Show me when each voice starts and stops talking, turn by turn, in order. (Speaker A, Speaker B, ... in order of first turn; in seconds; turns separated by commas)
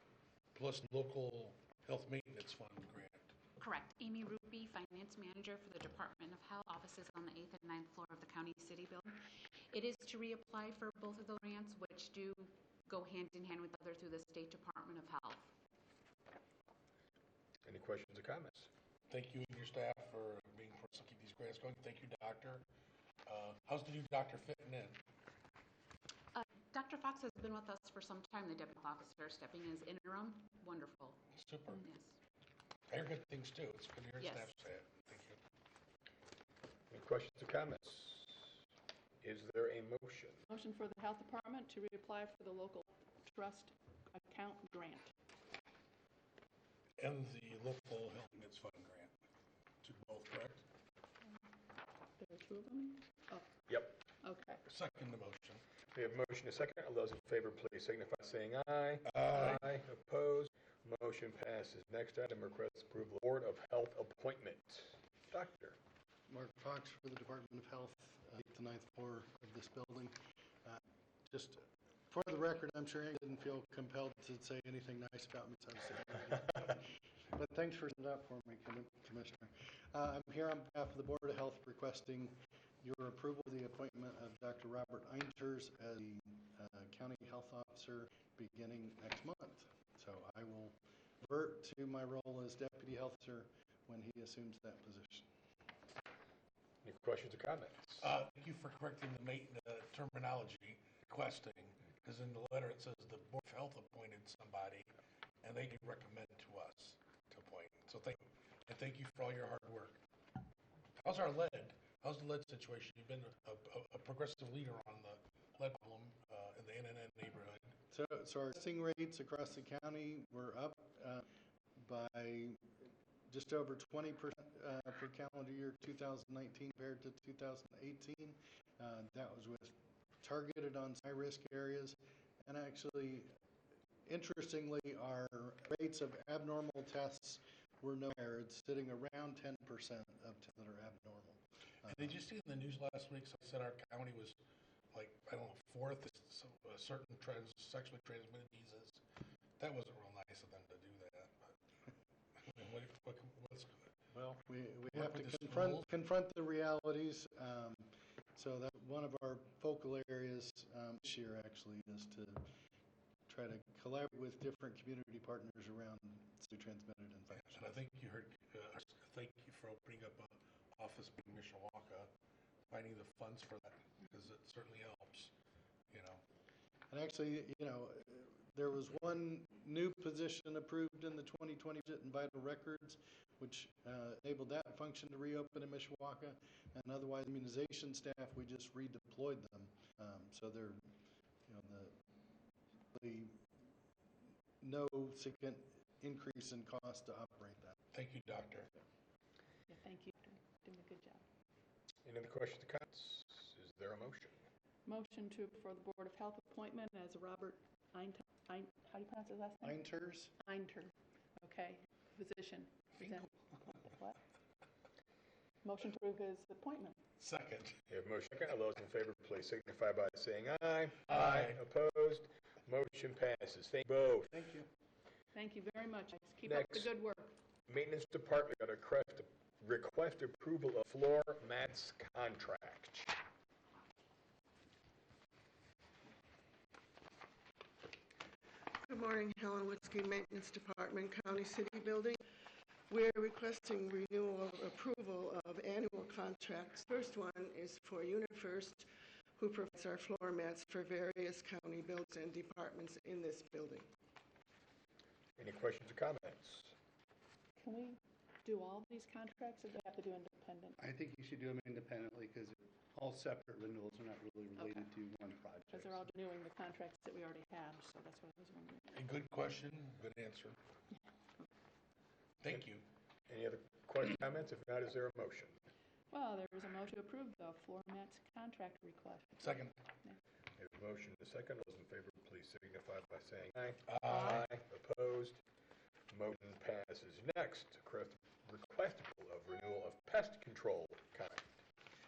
Speaker A: 0.5-3.4, Speaker B: 3.6-15.5, Speaker C: 17.6-18.7, Speaker A: 19.1-22.6, Speaker A: 23.3-25.0, Speaker B: 26.3-32.1, Speaker A: 31.3-31.8, Speaker A: 32.9-35.4, Speaker B: 34.2-34.6, Speaker C: 36.9-38.6, Speaker C: 39.2-40.4, Speaker D: 40.5-45.1, Speaker A: 47.0-49.1, Speaker A: 49.8-50.6, Speaker D: 52.2-53.6, Speaker C: 53.7-54.0, Speaker D: 54.2-54.6, Speaker A: 54.7-55.6, Speaker C: 55.9-65.8, Speaker A: 59.1-59.6, Speaker E: 66.3-95.3, Speaker C: 96.8-98.2, Speaker A: 98.0-104.9, Speaker A: 105.4-110.0, Speaker A: 111.0-117.8, Speaker E: 117.9-121.2, Speaker E: 121.8-133.3, Speaker E: 134.1-142.1, Speaker A: 141.9-144.4, Speaker A: 144.9-149.0, Speaker A: 149.6-151.5, Speaker A: 152.4-154.0, Speaker E: 154.1-162.5, Speaker A: 154.9-155.8, Speaker E: 163.3-167.7, Speaker A: 167.3-172.1, Speaker A: 172.7-175.3, Speaker A: 175.9-176.2, Speaker E: 176.9-190.9, Speaker E: 191.5-192.0, Speaker E: 192.9-193.4, Speaker E: 194.6-197.8, Speaker A: 197.9-198.7, Speaker D: 199.7-201.2, Speaker C: 202.1-204.4, Speaker D: 204.8-209.8, Speaker E: 209.6-210.3, Speaker D: 210.4-214.2, Speaker D: 215.6-217.0, Speaker A: 217.2-217.8, Speaker C: 217.9-224.4, Speaker A: 221.1-221.6, Speaker D: 225.3-227.3, Speaker C: 226.5-226.9, Speaker C: 227.7-233.2, Speaker F: 238.9-242.1, Speaker F: 242.9-248.8, Speaker F: 249.4-253.8, Speaker C: 255.4-256.8, Speaker D: 257.6-260.8, Speaker G: 260.8-266.1, Speaker D: 264.6-264.9, Speaker D: 265.7-269.0, Speaker A: 268.9-270.6, Speaker A: 272.4-272.9, Speaker C: 273.3-275.6, Speaker D: 276.1-280.2, Speaker A: 279.4-279.8, Speaker C: 280.6-285.4, Speaker A: 283.9-284.5, Speaker C: 286.1-291.5